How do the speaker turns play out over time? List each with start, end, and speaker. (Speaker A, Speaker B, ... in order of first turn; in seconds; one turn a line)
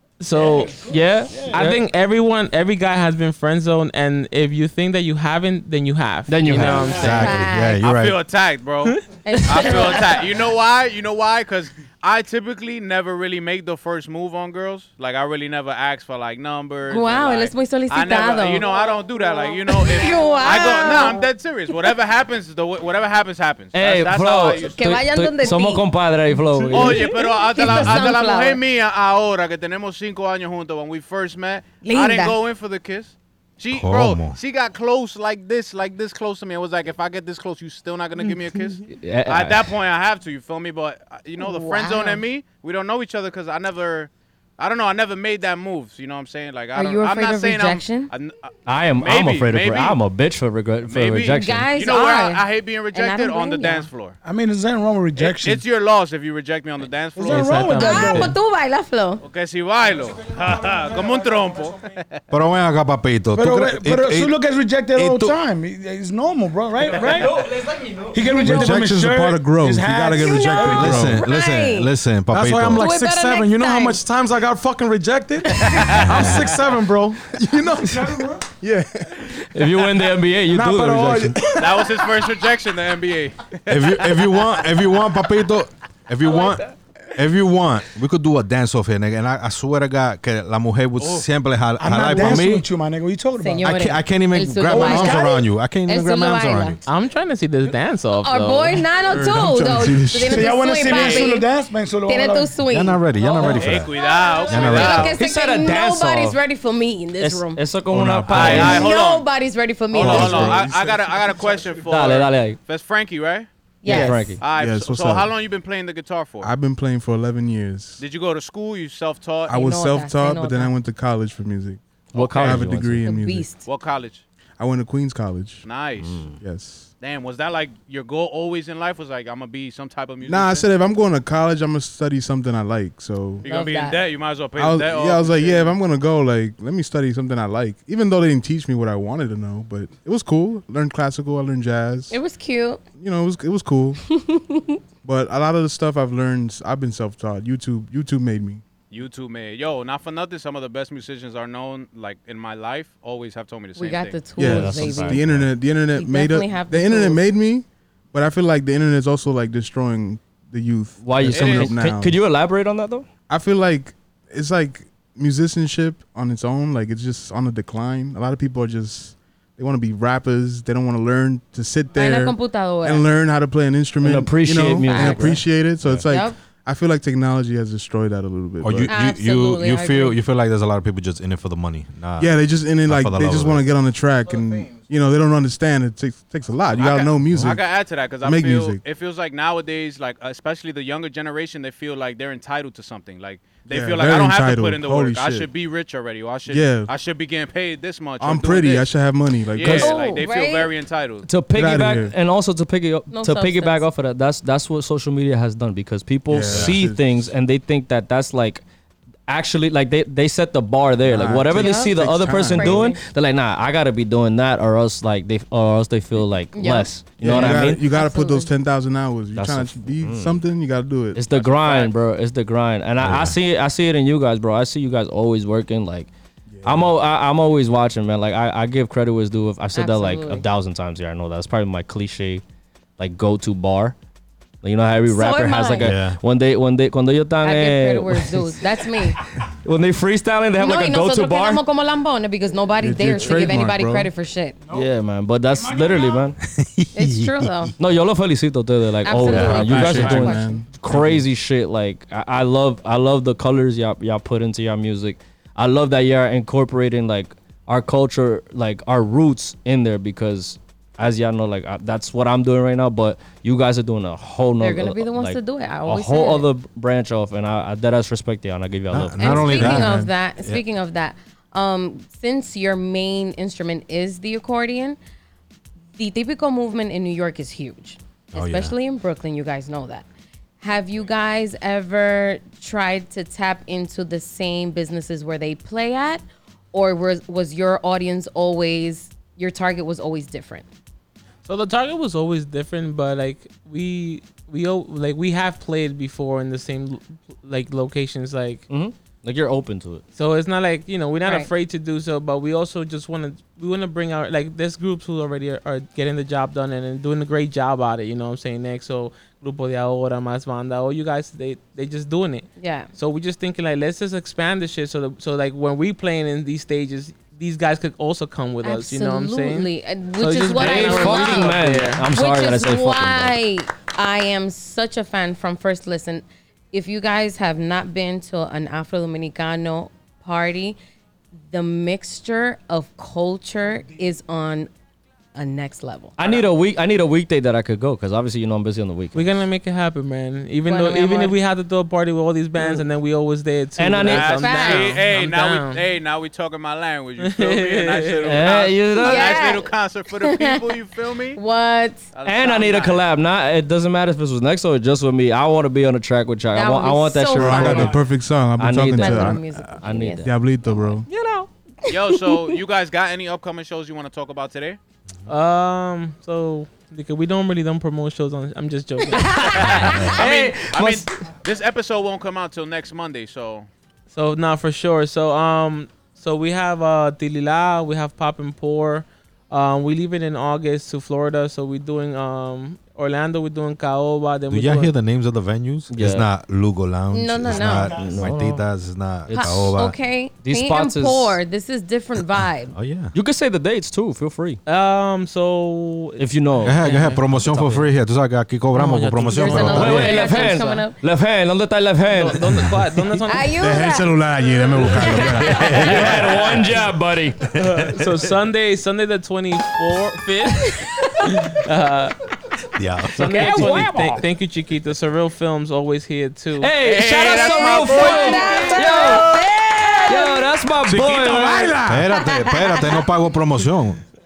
Speaker A: 0.2-0.9
Speaker B: 0.8-1.8
Speaker A: 1.4-7.4
Speaker B: 6.3-7.1
Speaker C: 6.5-8.2
Speaker D: 7.0-7.8
Speaker E: 7.8-25.0
Speaker A: 8.8-9.9
Speaker D: 9.2-10.3
Speaker D: 16.9-18.8
Speaker D: 19.6-21.3
Speaker B: 23.7-27.2
Speaker D: 24.6-25.9
Speaker D: 26.7-28.6
Speaker E: 26.7-50.0
Speaker D: 31.8-32.4
Speaker C: 33.7-34.4
Speaker B: 38.9-39.7
Speaker D: 41.4-42.2
Speaker D: 46.8-48.1
Speaker B: 48.7-51.8
Speaker E: 50.8-54.2
Speaker D: 51.2-53.9
Speaker F: 54.2-55.6
Speaker E: 55.2-57.7
Speaker F: 57.2-58.4
Speaker A: 57.2-58.3
Speaker D: 57.6-59.2
Speaker E: 59.2-62.2
Speaker G: 60.1-61.9
Speaker C: 62.3-64.3
Speaker F: 63.3-71.0
Speaker C: 64.9-65.4
Speaker G: 67.0-68.6
Speaker H: 68.4-71.2
Speaker C: 68.5-68.8
Speaker D: 70.2-71.9
Speaker C: 70.7-72.9
Speaker G: 72.3-82.3
Speaker D: 72.8-74.0
Speaker E: 75.5-76.6
Speaker C: 76.0-76.5
Speaker F: 78.0-78.3
Speaker B: 79.5-81.5
Speaker E: 81.6-84.5
Speaker C: 83.7-92.7
Speaker E: 91.0-91.3
Speaker F: 91.8-93.6
Speaker D: 93.4-96.8
Speaker C: 93.6-96.8
Speaker A: 96.9-98.9
Speaker D: 98.2-101.5
Speaker H: 99.0-100.5
Speaker F: 100.2-102.5
Speaker E: 100.8-101.3
Speaker D: 102.1-107.6
Speaker C: 102.7-103.9
Speaker E: 103.4-105.2
Speaker C: 104.5-105.2
Speaker B: 105.1-106.4
Speaker B: 107.2-108.9
Speaker H: 107.9-109.0
Speaker E: 108.3-109.3
Speaker D: 108.4-110.5
Speaker E: 109.9-113.5
Speaker H: 110.0-111.2
Speaker B: 110.0-110.6
Speaker G: 111.2-111.9
Speaker B: 111.8-112.6
Speaker D: 113.8-114.3
Speaker A: 113.9-114.3
Speaker B: 113.9-114.5
Speaker E: 114.4-116.5
Speaker H: 114.4-115.3
Speaker H: 116.4-118.0
Speaker E: 118.0-119.5
Speaker H: 119.5-123.6
Speaker D: 119.5-120.7
Speaker B: 122.1-123.0
Speaker C: 122.4-122.7
Speaker D: 123.0-123.7
Speaker E: 123.7-124.2
Speaker H: 124.6-125.7
Speaker E: 125.6-126.3
Speaker B: 126.0-126.4
Speaker H: 126.3-126.9
Speaker E: 127.0-130.7
Speaker H: 130.2-133.4
Speaker E: 133.4-135.8
Speaker D: 133.4-134.0
Speaker H: 134.6-142.2
Speaker D: 142.1-142.8
Speaker H: 143.0-144.1
Speaker D: 144.2-144.7
Speaker H: 145.0-148.6
Speaker E: 148.9-154.4
Speaker D: 153.8-155.2
Speaker H: 154.3-162.2
Speaker B: 154.4-155.3
Speaker D: 155.9-157.2
Speaker B: 161.0-163.1
Speaker E: 161.3-161.7
Speaker H: 163.3-179.0
Speaker D: 171.9-173.1
Speaker B: 174.0-175.4
Speaker D: 174.8-175.4
Speaker D: 176.1-176.4
Speaker C: 178.6-183.7
Speaker D: 178.9-180.2
Speaker H: 182.2-188.8
Speaker G: 184.5-184.8
Speaker E: 186.8-199.0
Speaker H: 193.7-195.5
Speaker H: 196.5-196.9
Speaker H: 198.2-200.2
Speaker E: 199.5-201.3
Speaker D: 199.6-200.7
Speaker B: 201.3-208.6
Speaker H: 201.5-202.1
Speaker D: 203.1-203.9
Speaker H: 206.3-207.3
Speaker C: 206.5-206.8
Speaker B: 209.3-217.8
Speaker H: 211.1-212.9
Speaker D: 211.5-213.0
Speaker D: 216.5-218.5
Speaker H: 217.2-221.3
Speaker B: 219.3-220.4
Speaker B: 221.1-226.1
Speaker E: 221.3-221.9
Speaker C: 223.0-223.4
Speaker H: 226.5-226.9
Speaker B: 226.6-232.4
Speaker D: 229.8-230.4
Speaker B: 233.0-233.9
Speaker B: 234.6-238.5
Speaker D: 235.1-236.0
Speaker C: 235.8-236.2
Speaker D: 237.4-239.2
Speaker B: 239.6-241.6
Speaker D: 240.6-244.6
Speaker H: 242.8-244.1
Speaker B: 244.7-246.4
Speaker F: 245.5-246.3
Speaker C: 246.4-247.7
Speaker D: 246.9-247.7
Speaker B: 247.8-269.8
Speaker D: 249.0-250.6
Speaker H: 249.2-251.2
Speaker C: 249.3-249.9
Speaker D: 264.6-266.5
Speaker C: 268.9-270.6
Speaker D: 269.2-275.0
Speaker H: 269.5-270.1
Speaker D: 276.0-280.1
Speaker C: 278.3-278.8
Speaker D: 280.6-290.6
Speaker A: 291.5-298.7
Speaker B: 298.7-300.0
Speaker A: 300.1-322.1
Speaker D: 312.6-312.9
Speaker D: 318.6-321.6
Speaker B: 320.5-323.4
Speaker D: 322.1-330.8
Speaker D: 331.5-334.7
Speaker D: 335.4-336.1
Speaker B: 336.2-339.3
Speaker E: 336.2-336.5
Speaker A: 339.1-345.8
Speaker D: 340.7-341.4
Speaker B: 343.8-344.4
Speaker E: 344.0-351.4
Speaker D: 344.3-345.0
Speaker A: 347.2-348.5
Speaker B: 348.2-349.5
Speaker D: 349.0-350.6
Speaker D: 351.4-352.1
Speaker E: 352.1-353.1
Speaker B: 352.2-358.1
Speaker D: 356.5-358.0
Speaker H: 357.4-361.1
Speaker B: 358.6-361.5
Speaker D: 358.9-360.3
Speaker E: 361.9-364.8
Speaker A: 365.3-370.2
Speaker B: 369.2-371.3
Speaker E: 369.6-373.7
Speaker A: 374.1-384.9
Speaker C: 384.5-390.0
Speaker B: 385.9-386.3
Speaker D: 387.1-387.9
Speaker F: 387.5-388.3
Speaker B: 387.8-388.6
Speaker B: 389.3-389.8
Speaker D: 389.3-392.8
Speaker B: 390.4-391.4
Speaker C: 392.7-393.1
Speaker B: 393.1-394.6
Speaker A: 394.7-397.2
Speaker B: 396.2-397.9
Speaker C: 396.6-400.1
Speaker A: 398.7-400.8
Speaker D: 399.3-401.0
Speaker B: 399.6-402.7
Speaker A: 402.1-403.5
Speaker D: 403.3-404.1
Speaker H: 403.6-406.1
Speaker B: 405.0-407.4
Speaker C: 405.4-406.9
Speaker C: 407.5-408.2
Speaker A: 407.5-412.2
Speaker C: 412.8-413.2
Speaker A: 413.2-416.8
Speaker B: 413.2-414.2
Speaker B: 416.6-419.4
Speaker E: 416.8-418.6
Speaker D: 417.3-420.5
Speaker G: 418.5-420.1
Speaker B: 420.1-421.8
Speaker G: 420.8-422.1
Speaker C: 421.9-424.0
Speaker D: 422.1-423.0